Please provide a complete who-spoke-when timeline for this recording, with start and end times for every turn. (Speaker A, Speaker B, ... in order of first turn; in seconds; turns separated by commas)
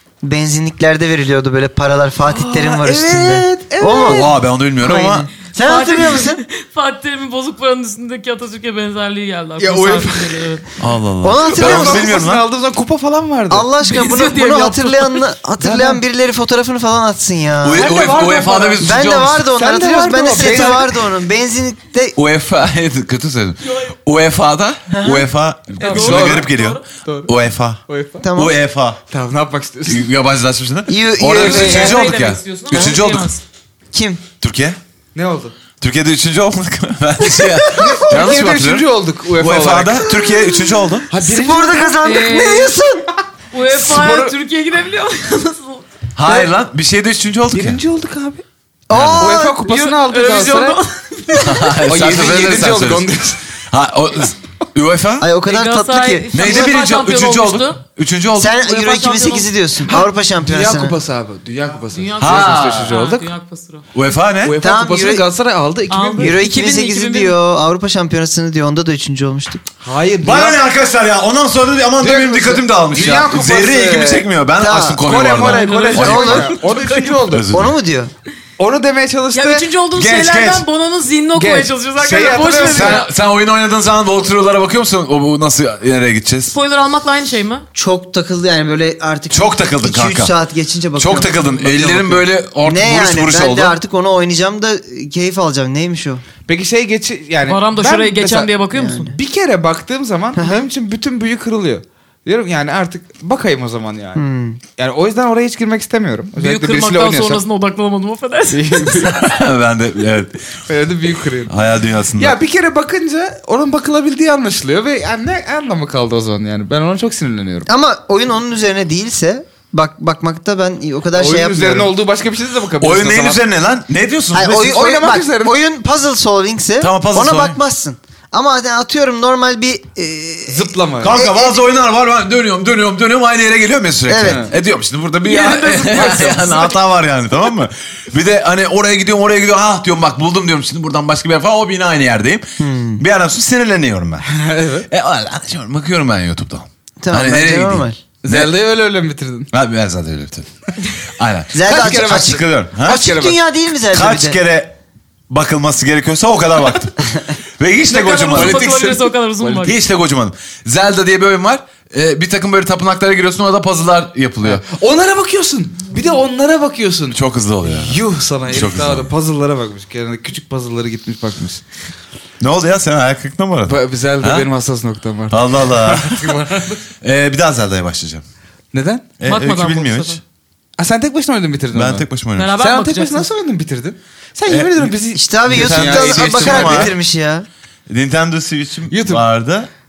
Speaker A: 0.2-4.3, Speaker B: 2.3-4.3, Speaker C: 4.0-5.3, Speaker A: 4.8-6.4, Speaker D: 5.6-10.7, Speaker B: 9.6-10.6, Speaker C: 10.8-12.4, Speaker A: 11.2-12.2, Speaker B: 11.4-13.7, Speaker A: 13.5-17.9, Speaker D: 13.8-15.3, Speaker B: 15.6-16.0, Speaker C: 17.6-19.5, Speaker B: 17.8-18.9, Speaker D: 18.0-18.7, Speaker A: 18.8-22.1, Speaker B: 19.5-21.0, Speaker C: 22.2-27.8, Speaker D: 23.6-23.9, Speaker A: 24.9-25.2, Speaker D: 25.8-26.9, Speaker B: 25.8-27.3, Speaker B: 27.9-28.2, Speaker A: 28.2-28.5, Speaker C: 28.4-29.0, Speaker B: 29.1-30.1, Speaker C: 29.9-33.3, Speaker A: 30.9-32.0, Speaker B: 31.3-31.9, Speaker D: 31.4-33.4, Speaker A: 33.9-34.2, Speaker C: 34.4-34.8, Speaker B: 35.1-35.5, Speaker C: 35.8-41.1, Speaker A: 37.3-38.1, Speaker B: 37.7-40.1, Speaker B: 41.1-42.0, Speaker A: 41.2-43.1, Speaker D: 42.0-42.8, Speaker D: 43.5-45.9, Speaker B: 43.7-44.4, Speaker C: 46.2-47.8, Speaker B: 47.5-48.4, Speaker A: 48.9-49.8, Speaker C: 48.9-49.4, Speaker B: 49.2-50.8, Speaker D: 49.6-51.7, Speaker C: 51.4-53.1, Speaker B: 51.9-53.4, Speaker C: 53.7-55.3, Speaker A: 55.2-56.6, Speaker D: 55.5-57.8, Speaker C: 56.3-58.6, Speaker A: 58.4-61.0, Speaker D: 58.5-59.5, Speaker B: 59.9-63.3, Speaker D: 61.9-63.9, Speaker C: 62.2-62.9, Speaker C: 63.9-64.6, Speaker B: 64.4-66.4, Speaker A: 64.6-65.3, Speaker D: 65.9-67.3, Speaker A: 66.2-69.7, Speaker B: 69.8-70.6, Speaker C: 70.2-76.5, Speaker B: 72.0-74.3, Speaker A: 74.6-75.0, Speaker B: 75.0-77.5, Speaker D: 75.3-77.2, Speaker A: 76.0-76.5, Speaker C: 77.3-77.7, Speaker A: 77.5-78.1, Speaker B: 78.6-79.7, Speaker D: 79.3-83.1, Speaker C: 80.0-80.7, Speaker B: 81.3-83.1, Speaker C: 82.6-86.5, Speaker D: 86.5-87.7, Speaker A: 87.8-96.2, Speaker C: 89.3-90.3, Speaker C: 91.0-93.8, Speaker B: 96.5-107.4, Speaker D: 97.5-99.1, Speaker A: 98.7-99.1, Speaker A: 104.2-104.6, Speaker D: 106.4-109.1, Speaker B: 108.5-109.3, Speaker C: 108.9-110.5, Speaker B: 110.7-111.5, Speaker C: 111.5-112.4, Speaker B: 112.2-117.7, Speaker A: 117.7-121.9, Speaker B: 121.1-123.4, Speaker C: 122.8-124.9, Speaker A: 124.3-131.5, Speaker B: 124.7-125.5, Speaker C: 126.8-127.6, Speaker B: 130.5-131.2, Speaker C: 131.0-142.5, Speaker A: 134.1-134.4, Speaker B: 134.2-134.5, Speaker D: 135.2-136.8, Speaker B: 135.9-136.4, Speaker A: 142.6-143.0, Speaker C: 143.0-144.3, Speaker B: 144.3-144.9, Speaker C: 144.9-148.5, Speaker A: 147.0-148.0, Speaker B: 148.2-149.5, Speaker C: 149.5-150.5, Speaker C: 151.1-153.1, Speaker A: 151.5-154.4, Speaker B: 151.6-153.4, Speaker C: 153.9-154.8, Speaker C: 155.3-158.7, Speaker B: 157.9-159.8, Speaker D: 158.0-159.8, Speaker C: 159.6-164.6, Speaker B: 164.4-171.6, Speaker C: 167.1-169.1, Speaker C: 172.4-174.5, Speaker B: 173.7-176.8, Speaker C: 175.3-176.3, Speaker C: 177.0-178.2, Speaker B: 178.7-179.1, Speaker C: 179.2-180.2, Speaker D: 179.2-180.2, Speaker B: 180.8-182.1, Speaker C: 181.7-182.5, Speaker D: 182.4-183.3, Speaker B: 182.6-186.9, Speaker C: 184.5-184.9, Speaker A: 185.2-187.5, Speaker C: 185.5-186.9, Speaker C: 187.9-189.7, Speaker B: 188.9-189.2